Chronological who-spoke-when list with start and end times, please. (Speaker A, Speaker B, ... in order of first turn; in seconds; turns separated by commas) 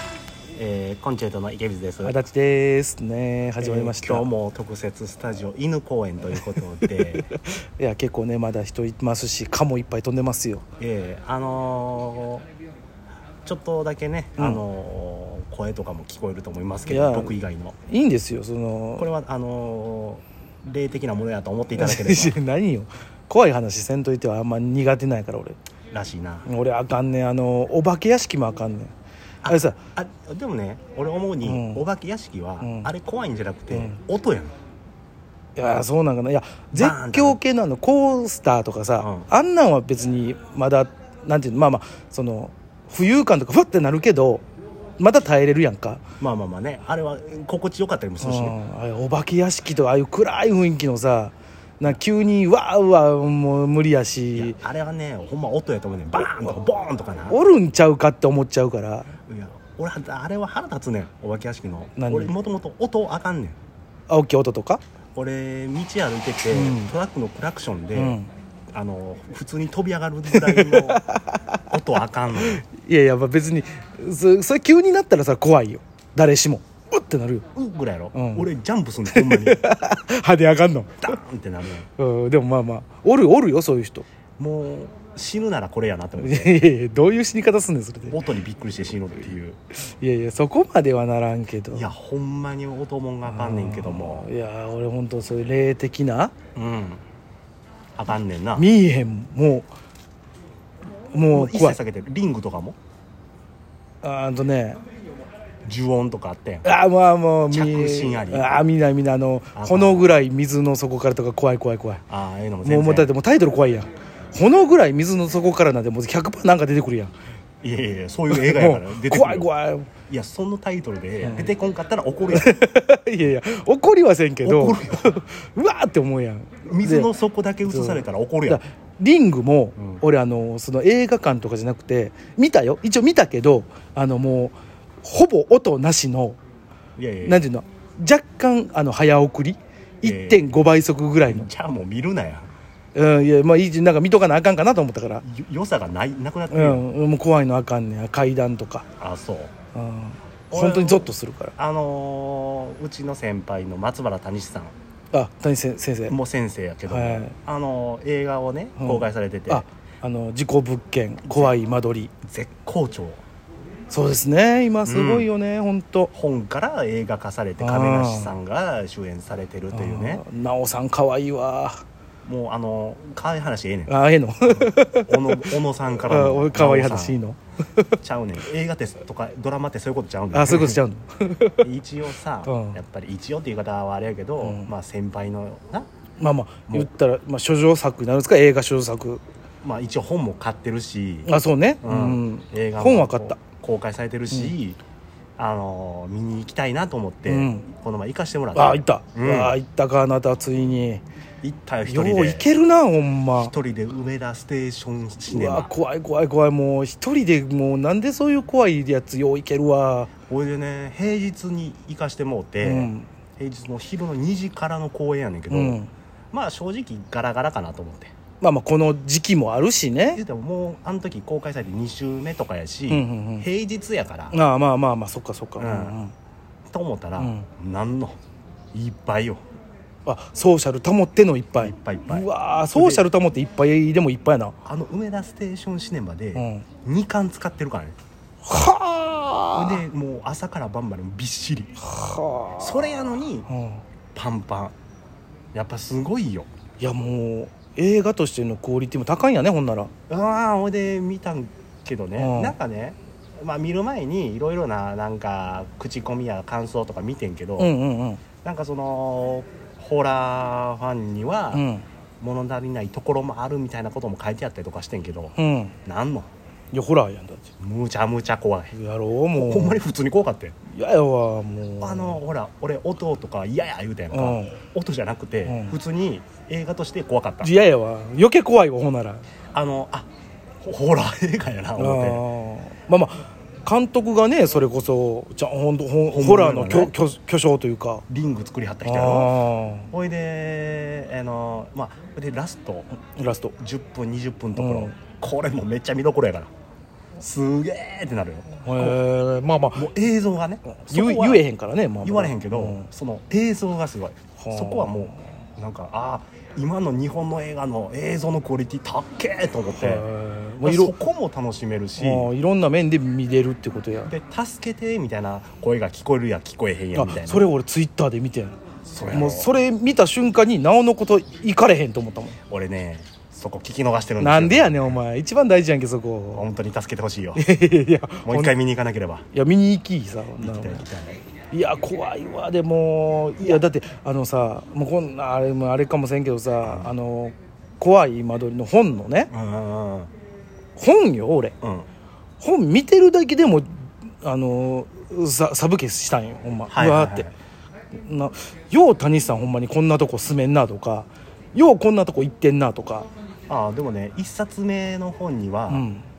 Speaker A: 0.5-2.2, Speaker B: 2.0-4.2, Speaker A: 3.6-7.2, Speaker B: 7.1-10.6, Speaker A: 10.8-12.4, Speaker A: 13.4-17.8, Speaker B: 16.9-17.3, Speaker B: 17.9-19.1, Speaker A: 19.0-22.4, Speaker B: 21.8-25.6, Speaker A: 25.9-26.5, Speaker B: 26.4-28.9, Speaker A: 29.4-34.5, Speaker B: 29.4-29.8, Speaker B: 31.4-31.8, Speaker B: 32.6-32.9, Speaker B: 33.7-34.0, Speaker B: 35.5-44.4, Speaker A: 36.7-37.4, Speaker A: 39.0-39.3, Speaker B: 45.0-46.0, Speaker A: 46.2-48.5, Speaker B: 48.2-54.6, Speaker A: 54.3-57.4, Speaker B: 57.3-59.1, Speaker A: 59.3-63.6, Speaker B: 62.0-62.3, Speaker B: 64.1-64.8, Speaker A: 65.1-68.2, Speaker B: 66.5-66.9, Speaker B: 68.0-68.3, Speaker A: 68.7-71.0, Speaker B: 70.3-71.6, Speaker A: 71.7-72.6, Speaker B: 72.4-77.5, Speaker A: 77.5-79.6, Speaker B: 78.1-78.5, Speaker B: 79.1-81.2, Speaker A: 81.0-81.9, Speaker B: 82.0-84.0, Speaker A: 84.4-86.6, Speaker B: 86.2-88.2, Speaker A: 88.1-89.6, Speaker B: 89.9-91.9, Speaker A: 91.7-94.3, Speaker B: 93.2-96.3, Speaker A: 96.5-97.0, Speaker A: 98.0-98.7, Speaker B: 98.5-99.7, Speaker B: 101.1-101.8, Speaker A: 101.3-102.8, Speaker B: 104.0-104.8, Speaker A: 105.6-106.7, Speaker B: 106.6-112.0, Speaker A: 107.5-108.5, Speaker A: 109.5-110.1, Speaker A: 112.1-113.1, Speaker B: 112.6-117.1, Speaker A: 117.6-119.5, Speaker B: 118.3-119.9, Speaker A: 120.1-122.7, Speaker B: 121.2-121.5, Speaker B: 122.3-127.1, Speaker A: 124.4-125.2, Speaker A: 126.7-128.6, Speaker B: 127.7-136.4, Speaker A: 129.8-130.0, Speaker A: 136.9-137.5, Speaker B: 137.2-141.5, Speaker A: 140.0-140.6, Speaker A: 141.3-142.5, Speaker B: 142.9-145.2, Speaker A: 145.2-146.8, Speaker B: 146.5-148.9, Speaker A: 149.0-149.5, Speaker B: 149.7-151.5, Speaker A: 150.5-154.7, Speaker B: 155.1-156.2, Speaker A: 156.1-159.6, Speaker B: 156.9-157.3, Speaker B: 158.8-162.1, Speaker A: 162.2-163.2, Speaker B: 163.9-166.1, Speaker A: 164.8-165.3, Speaker A: 166.1-170.2, Speaker B: 167.6-168.3, Speaker B: 169.7-171.8, Speaker A: 172.2-173.9, Speaker B: 173.9-175.6, Speaker A: 174.5-177.2, Speaker B: 176.1-177.8, Speaker A: 178.0-180.8, Speaker B: 180.3-181.7, Speaker A: 181.6-185.9, Speaker B: 182.4-182.8, Speaker B: 184.4-184.7, Speaker B: 186.2-189.2, Speaker A: 189.6-191.3, Speaker B: 191.2-193.4, Speaker A: 191.8-194.8, Speaker A: 195.4-199.6, Speaker B: 197.3-197.6, Speaker B: 198.5-201.0, Speaker A: 201.4-202.5, Speaker B: 201.8-203.5, Speaker A: 203.4-205.7, Speaker B: 205.3-210.1, Speaker A: 210.3-218.1, Speaker B: 212.6-213.1, Speaker B: 215.5-215.9, Speaker B: 218.4-220.2, Speaker A: 220.1-224.4, Speaker B: 222.9-223.5, Speaker B: 224.3-226.1, Speaker A: 225.6-226.0, Speaker A: 226.7-228.2, Speaker B: 227.2-227.5, Speaker A: 228.7-229.4, Speaker B: 230.1-234.6, Speaker A: 231.6-233.1, Speaker A: 234.6-238.0, Speaker B: 236.3-236.7, Speaker B: 238.4-239.8, Speaker A: 239.5-241.8, Speaker B: 241.8-243.8, Speaker A: 242.6-243.5, Speaker A: 244.1-244.7, Speaker A: 245.5-246.5, Speaker B: 246.8-249.9, Speaker A: 250.1-257.7, Speaker B: 252.2-252.6, Speaker B: 257.6-258.2, Speaker A: 258.4-261.6, Speaker B: 261.5-261.8, Speaker A: 262.2-266.3, Speaker B: 265.4-265.7, Speaker B: 266.7-267.5, Speaker A: 267.6-268.7, Speaker B: 268.7-269.8, Speaker A: 269.3-270.6, Speaker B: 270.7-272.2, Speaker A: 271.8-277.5, Speaker B: 274.1-274.5, Speaker B: 275.4-275.8, Speaker B: 277.4-279.3, Speaker A: 279.5-280.1, Speaker A: 280.6-282.2, Speaker B: 281.8-288.0, Speaker A: 286.1-286.9, Speaker A: 288.1-289.3, Speaker B: 288.8-289.9, Speaker A: 289.9-292.9, Speaker B: 293.0-293.5, Speaker A: 293.6-296.5, Speaker B: 294.6-294.9, Speaker A: 297.2-299.0, Speaker B: 298.6-299.9, Speaker A: 299.7-301.4, Speaker B: 300.7-302.9, Speaker A: 302.0-310.1, Speaker B: 304.4-305.2, Speaker B: 309.7-310.9, Speaker A: 310.6-312.3, Speaker B: 312.0-314.1, Speaker A: 314.1-317.5, Speaker B: 316.9-322.4, Speaker A: 318.8-319.5, Speaker A: 322.5-325.0, Speaker B: 324.2-326.4, Speaker A: 326.3-327.4, Speaker B: 327.4-328.5, Speaker A: 328.2-329.2, Speaker B: 329.3-330.9, Speaker A: 330.4-331.2, Speaker B: 331.5-339.3, Speaker A: 333.4-333.6, Speaker A: 336.6-336.9, Speaker A: 339.3-340.1, Speaker B: 340.8-341.5, Speaker A: 341.6-341.9, Speaker B: 342.4-343.7, Speaker B: 344.2-347.3, Speaker A: 346.7-347.3, Speaker B: 348.0-353.1, Speaker A: 353.5-355.9, Speaker B: 355.7-356.1